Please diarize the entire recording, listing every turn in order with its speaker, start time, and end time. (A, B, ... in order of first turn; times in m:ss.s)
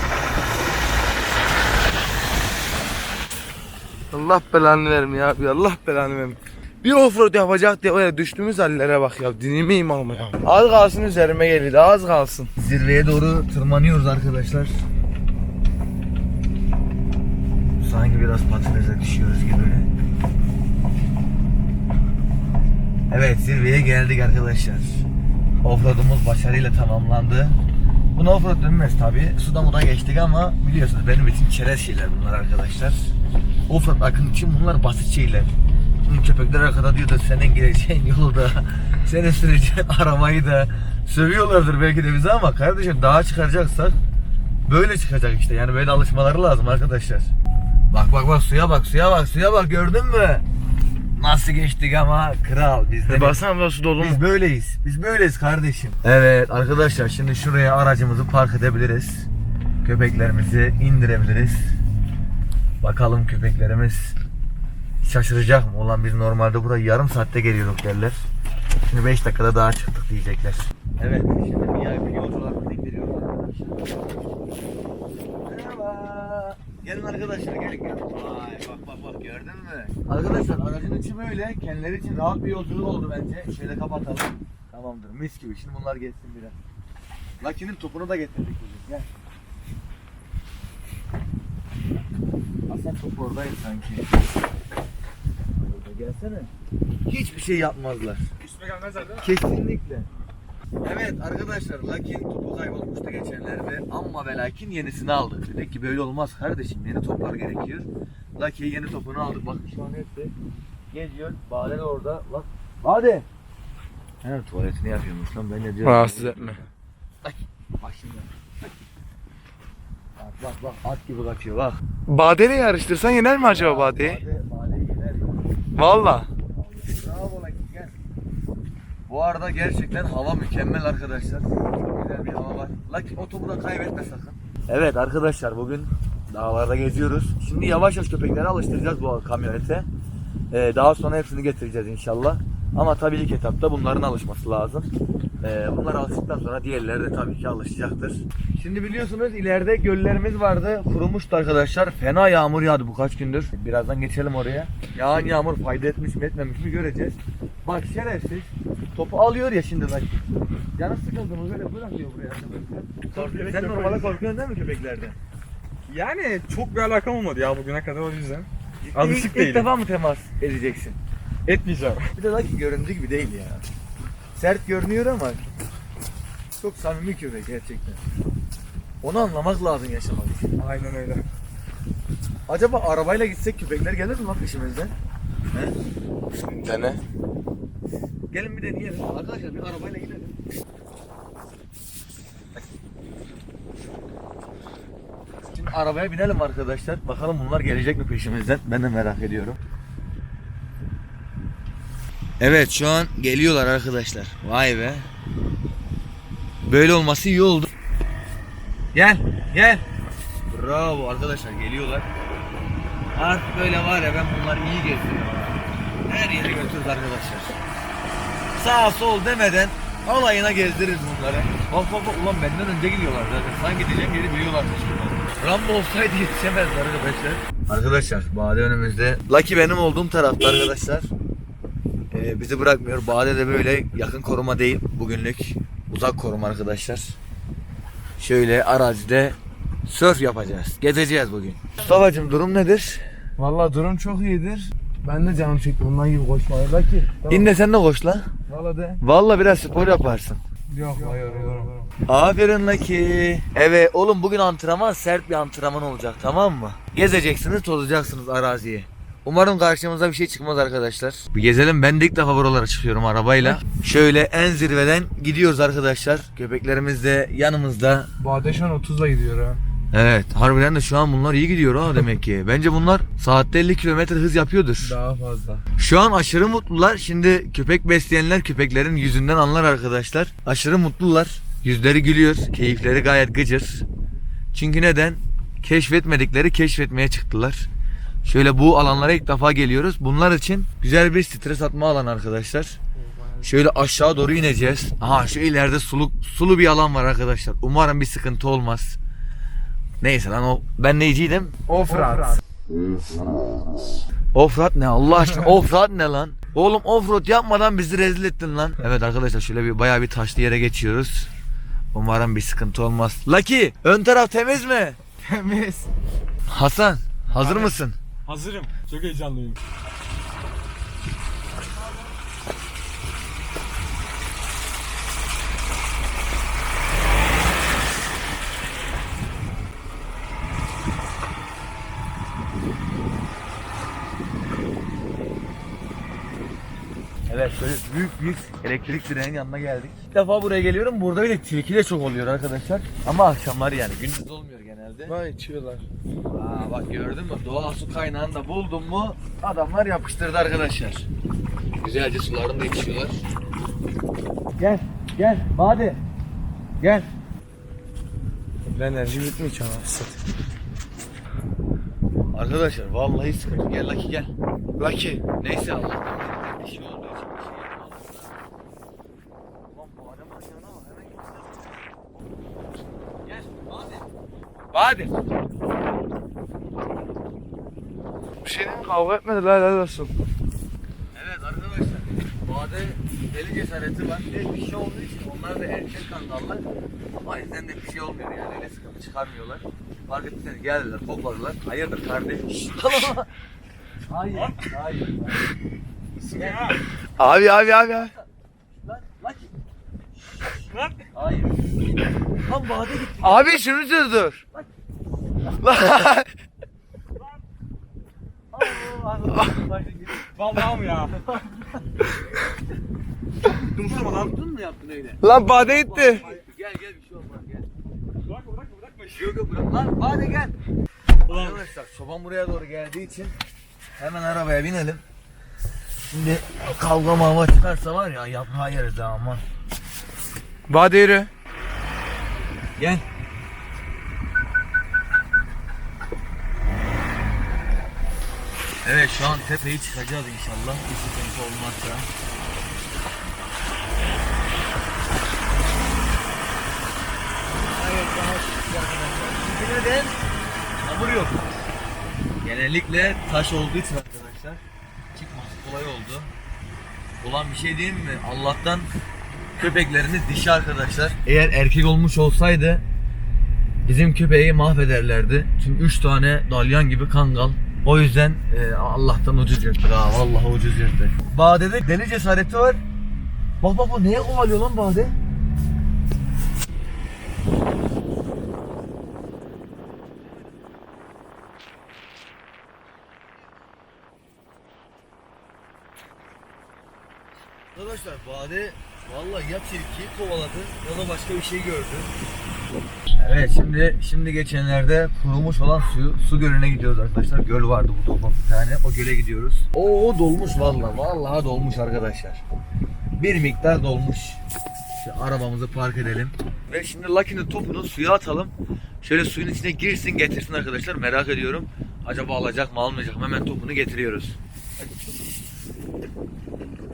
0:04.1-0:12.5 A
0:12.6-0:14.8 B
0:17.8-0:19.9 B
0:23.1-0:25.0 B
0:25.6-0:27.6 B
0:28.1-0:33.1 B
0:33.7-0:35.5 B
0:36.0-0:44.0 B
0:44.7-0:47.3 B
0:47.9-0:50.4 B
0:51.2-0:53.4 B
0:53.1-0:54.2 A
0:54.0-0:59.3 B
0:59.8-1:01.7 B
1:02.8-1:04.1 B
1:05.0-1:08.2 B
1:08.9-1:14.0 B
1:15.4-1:26.6 B
1:27.4-1:29.1 B
1:32.7-1:34.1 B
1:35.6-1:36.5 B
1:37.1-1:38.3 B
1:39.1-1:40.1 B
1:40.8-1:50.3 B
1:50.9-1:53.2 B
1:54.2-1:56.6 B
1:55.8-1:56.6 A
1:57.2-1:58.3 B
2:00.2-2:01.8 B
2:02.1-2:04.2 A
2:03.4-2:05.4 B
2:05.8-2:06.3 A
2:06.4-2:08.0 B
2:09.1-2:19.9 B
2:20.5-2:24.9 B
2:25.4-2:45.2 B
2:43.2-2:43.9 C
2:43.6-2:43.9 A
2:45.9-2:48.4 C
2:48.8-2:51.0 B
2:49.1-2:49.6 C
2:51.5-2:52.0 C
2:52.1-2:53.6 B
2:54.4-2:55.5 B
2:56.6-2:58.0 B
2:59.0-3:00.5 B
3:00.7-3:01.2 A
3:02.5-3:04.9 B
3:06.4-3:07.0 A
3:08.3-3:10.4 B
3:15.5-3:19.6 B
3:22.4-3:25.1 B
3:26.7-3:27.7 B
3:28.9-3:29.8 B
3:30.5-3:32.1 B
3:33.2-3:37.6 B
3:38.5-3:51.1 B
3:52.1-3:57.2 B
3:58.2-4:03.0 B
4:03.4-4:07.5 A
4:07.3-4:08.3 B
4:08.5-4:09.0 A
4:09.0-4:10.4 B
4:10.7-4:11.8 A
4:11.1-4:11.4 C
4:12.1-4:28.1 B
4:28.2-4:29.6 A
4:29.9-4:35.0 B
4:34.8-4:35.6 A
4:35.8-4:43.8 B
4:44.5-4:47.7 B
4:48.2-4:52.8 B
4:53.4-4:59.0 B
5:00.0-5:01.5 B
5:01.7-5:02.4 A
5:04.3-5:11.3 B
5:11.9-5:15.0 B
5:15.2-5:15.9 A
5:16.5-5:18.0 B
5:18.3-5:19.6 A
5:18.9-5:19.2 C
5:37.3-5:45.2 B
5:45.1-5:45.8 A
5:46.3-5:51.1 B
5:51.8-5:53.2 B
5:54.6-5:56.0 B
5:56.8-5:57.1 B
5:58.6-6:00.2 A
6:02.3-6:04.3 B
6:04.8-6:05.2 A
6:05.4-6:08.4 B
6:09.7-6:11.8 B
6:13.2-6:14.0 B
6:14.7-6:15.1 A
6:18.4-6:20.1 A
6:21.1-6:26.6 B
6:27.2-6:33.3 B
6:34.1-6:35.4 B
6:36.2-6:36.8 B
6:37.2-6:38.1 A
6:37.9-6:38.2 B
6:38.8-6:39.6 B
6:41.1-6:41.5 B
6:42.5-6:43.6 B
6:43.2-6:44.4 A
6:45.6-6:46.3 A
6:48.5-6:51.7 B
6:50.4-6:51.1 C
6:53.7-6:57.7 B
6:53.8-6:54.2 C
6:55.2-6:56.3 A
6:58.4-6:58.7 C
6:58.8-7:00.5 B
7:01.2-7:03.3 B
7:04.0-7:05.0 B
7:06.1-7:09.4 B
7:10.7-7:11.3 A
7:12.8-7:13.0 B
7:18.8-7:22.1 B
7:27.7-7:30.2 B
7:30.8-7:31.4 B
7:32.4-7:34.6 B
7:35.1-7:36.3 B
7:37.2-7:38.9 B
7:39.6-7:42.8 B
7:43.8-7:52.8 B
7:53.6-7:55.1 B
8:07.7-8:12.1 B
8:13.2-8:22.4 B
8:23.2-8:24.4 B
8:25.0-8:34.9 B